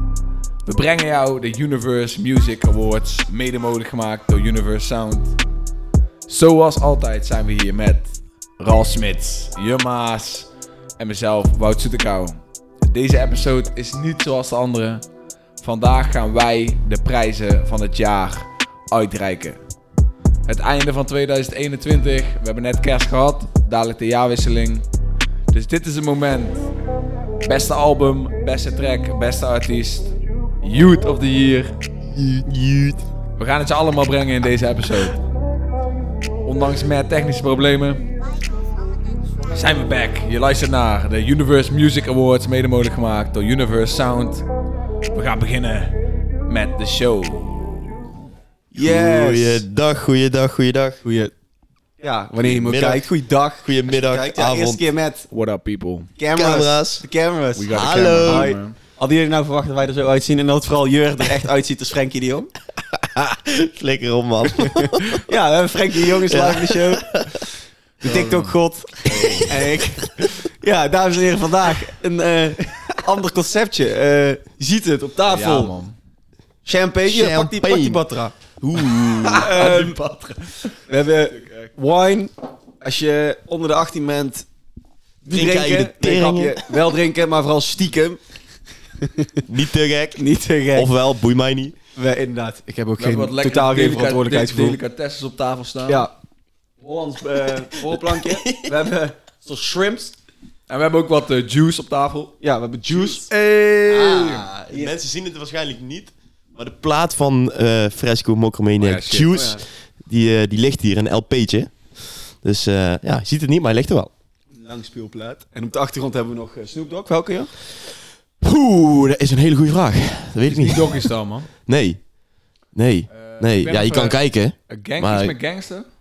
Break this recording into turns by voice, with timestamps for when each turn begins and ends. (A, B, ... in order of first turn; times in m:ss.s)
0:00.6-0:05.4 A
0:06.3-0:15.0 A
0:15.6-0:19.6 A
0:20.4-0:24.8 A
0:25.5-0:26.7 A
0:27.4-0:30.1 A
0:30.6-0:31.8 A
0:32.2-0:33.0 B
0:33.4-0:35.2 A
0:36.4-0:38.1 A
0:39.5-0:44.4 A
0:45.1-0:45.9 A
0:46.4-0:47.6 A
0:48.7-0:49.6 C
0:48.7-0:51.0 B
0:51.0-0:51.3 C
0:52.0-0:55.3 C
0:52.4-0:53.0 B
0:53.6-0:54.8 B
0:55.3-0:56.1 A
0:56.2-1:02.5 C
0:56.3-0:57.0 B
0:57.5-0:58.8 A
0:57.7-0:58.5 B
1:03.1-1:05.2 B
1:04.6-1:07.4 C
1:06.2-1:07.4 B
1:08.0-1:15.7 C
1:08.0-1:08.6 A
1:09.1-1:09.5 A
1:15.3-1:15.9 A
1:16.6-1:18.3 C
1:17.0-1:18.0 B
1:18.6-1:19.5 B
1:19.0-1:21.7 A
1:19.4-1:20.0 C
1:20.9-1:24.5 C
1:25.2-1:28.2 C
1:25.3-1:26.7 B
1:29.0-1:29.4 C
1:29.5-1:30.2 B
1:30.2-1:30.9 C
1:30.7-1:31.7 B
1:31.9-1:34.8 C
1:33.0-1:36.0 A
1:36.8-1:40.1 C
1:37.8-1:38.7 B
1:40.7-1:42.3 A
1:42.4-1:43.3 C
1:42.9-1:44.5 A
1:43.9-1:54.1 B
1:44.7-1:45.0 C
1:48.8-1:49.3 A
1:49.3-1:49.6 C
1:54.5-1:57.5 C
1:58.4-2:01.0 B
2:00.4-2:01.5 A
2:01.6-2:02.0 B
2:02.7-2:05.3 B
2:03.1-2:05.8 A